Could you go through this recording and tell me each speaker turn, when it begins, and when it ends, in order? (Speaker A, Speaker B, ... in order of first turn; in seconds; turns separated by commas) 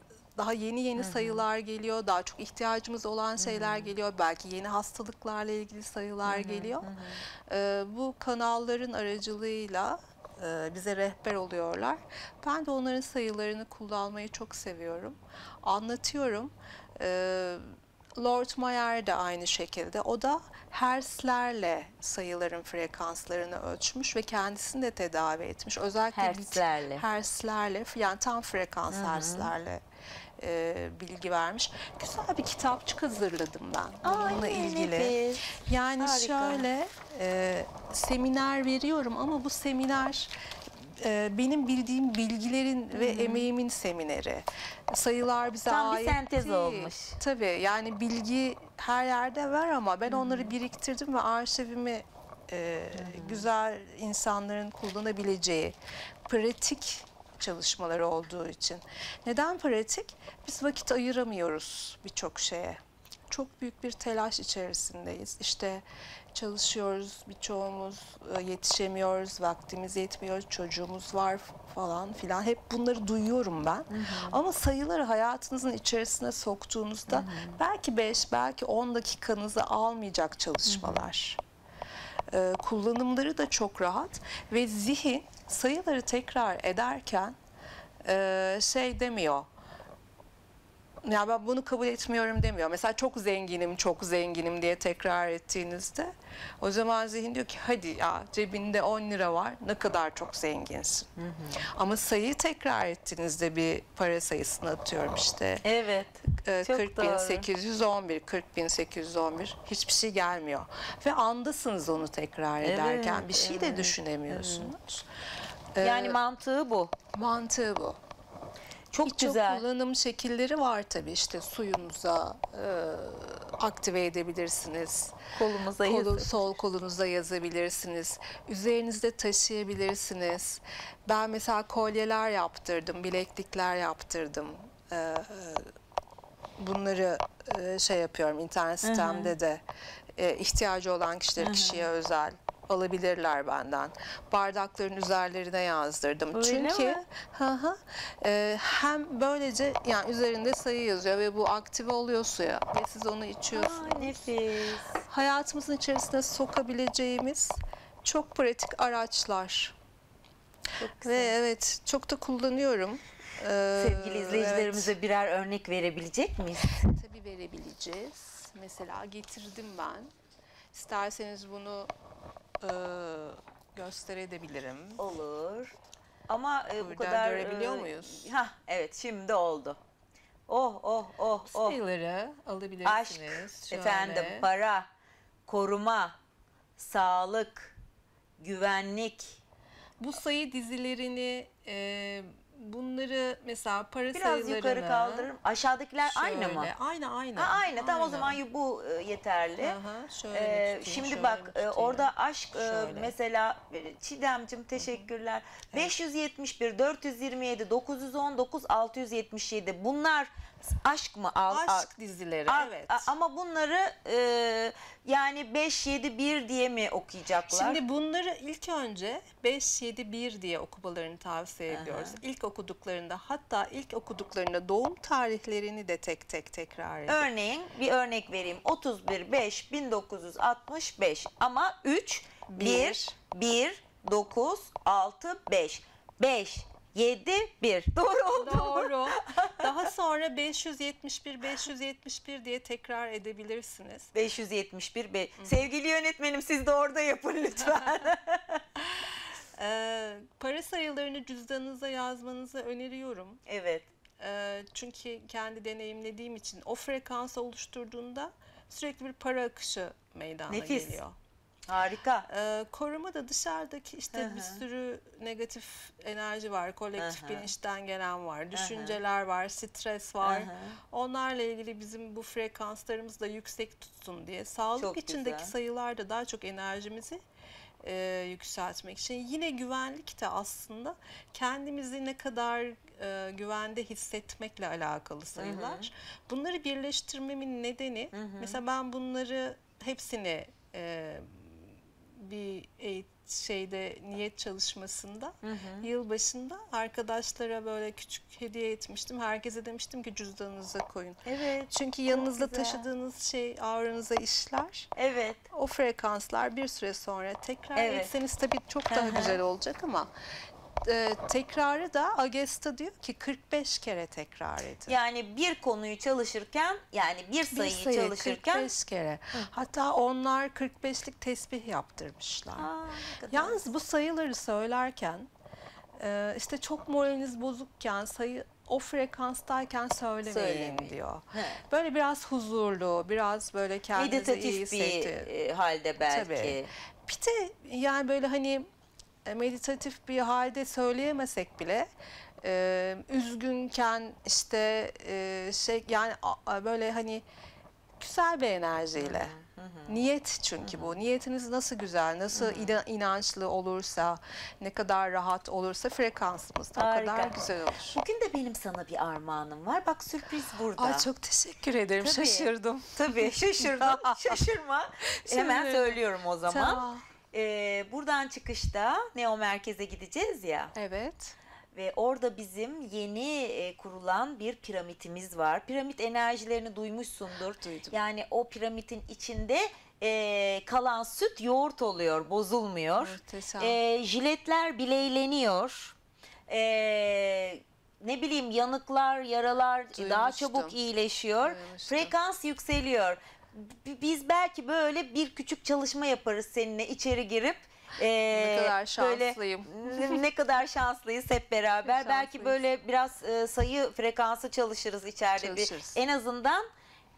Speaker A: 0.3-17.7, Speaker B: 1.0-1.4, Speaker B: 3.4-3.9, Speaker B: 6.2-7.2, Speaker A: 18.2-29.8, Speaker B: 26.1-27.1, Speaker B: 28.9-29.5, Speaker A: 30.4-55.8, Speaker B: 34.0-35.5, Speaker B: 36.0-36.7, Speaker B: 42.9-43.5, Speaker B: 45.7-47.2, Speaker B: 50.1-50.5, Speaker B: 52.9-53.5, Speaker A: 56.3-81.4, Speaker B: 73.9-74.4, Speaker B: 77.1-77.6, Speaker B: 80.7-81.0, Speaker A: 82.3-87.4, Speaker A: 88.0-89.5, Speaker A: 91.0-101.1, Speaker B: 101.2-101.6, Speaker A: 101.6-105.6, Speaker B: 105.6-107.5, Speaker A: 106.4-115.1, Speaker B: 112.6-114.7, Speaker A: 115.8-116.2, Speaker B: 115.8-116.9, Speaker A: 117.1-118.0, Speaker B: 118.9-119.6, Speaker A: 119.0-125.2, Speaker B: 125.3-126.3, Speaker A: 125.8-135.7, Speaker A: 136.6-139.6, Speaker B: 138.8-139.3, Speaker A: 140.2-154.3, Speaker B: 141.4-141.9, Speaker B: 146.3-147.0, Speaker B: 153.5-155.1, Speaker A: 155.1-159.8, Speaker B: 160.8-161.3, Speaker A: 161.0-164.9, Speaker B: 163.8-167.0, Speaker A: 166.6-170.1, Speaker A: 170.7-171.9, Speaker A: 172.6-175.0, Speaker B: 175.0-175.8, Speaker B: 176.3-179.8, Speaker A: 176.8-178.2, Speaker B: 180.5-181.8, Speaker A: 181.5-184.5, Speaker B: 182.8-184.9, Speaker B: 185.5-186.2, Speaker B: 186.8-187.8, Speaker B: 188.4-189.4, Speaker A: 190.0-195.3, Speaker B: 194.1-196.7, Speaker A: 196.1-198.4, Speaker B: 197.4-199.8, Speaker A: 199.6-203.1, Speaker B: 200.3-211.9, Speaker A: 211.5-213.1, Speaker B: 212.5-217.8, Speaker A: 217.5-227.2, Speaker B: 221.7-222.2, Speaker B: 227.1-239.7, Speaker A: 232.5-233.1, Speaker A: 238.4-244.1, Speaker B: 244.1-248.6, Speaker A: 245.4-245.7, Speaker A: 249.5-253.4, Speaker B: 253.5-253.9, Speaker A: 254.2-261.1, Speaker B: 260.5-261.0, Speaker B: 261.7-262.3, Speaker A: 262.3-277.2, Speaker B: 264.1-264.6, Speaker B: 267.0-267.5, Speaker B: 268.5-269.0, Speaker B: 270.2-270.8, Speaker B: 274.8-275.5, Speaker A: 277.8-304.9, Speaker B: 285.4-285.9, Speaker B: 288.1-288.6, Speaker B: 295.4-295.9, Speaker B: 301.2-302.9, Speaker B: 305.0-305.5, Speaker A: 305.5-310.1, Speaker B: 307.8-308.1, Speaker B: 308.9-309.4, Speaker A: 310.8-315.0, Speaker B: 314.9-318.7, Speaker A: 317.5-322.7, Speaker B: 322.6-323.6, Speaker A: 323.3-325.3, Speaker A: 326.0-335.3, Speaker B: 330.2-331.6, Speaker B: 334.0-336.7, Speaker A: 336.1-338.7, Speaker A: 339.2-347.2, Speaker A: 348.0-349.3, Speaker B: 349.0-350.0, Speaker A: 349.9-358.0, Speaker B: 350.6-351.0, Speaker B: 352.3-352.8, Speaker B: 356.8-361.1, Speaker A: 360.8-364.5, Speaker B: 362.0-370.7, Speaker A: 365.0-367.0, Speaker A: 370.8-371.4, Speaker B: 371.7-385.9, Speaker A: 377.6-378.0, Speaker A: 383.0-383.8, Speaker B: 386.5-406.7, Speaker A: 389.9-390.8, Speaker A: 391.4-392.1, Speaker A: 398.3-400.2, Speaker A: 401.8-402.6, Speaker A: 405.4-406.0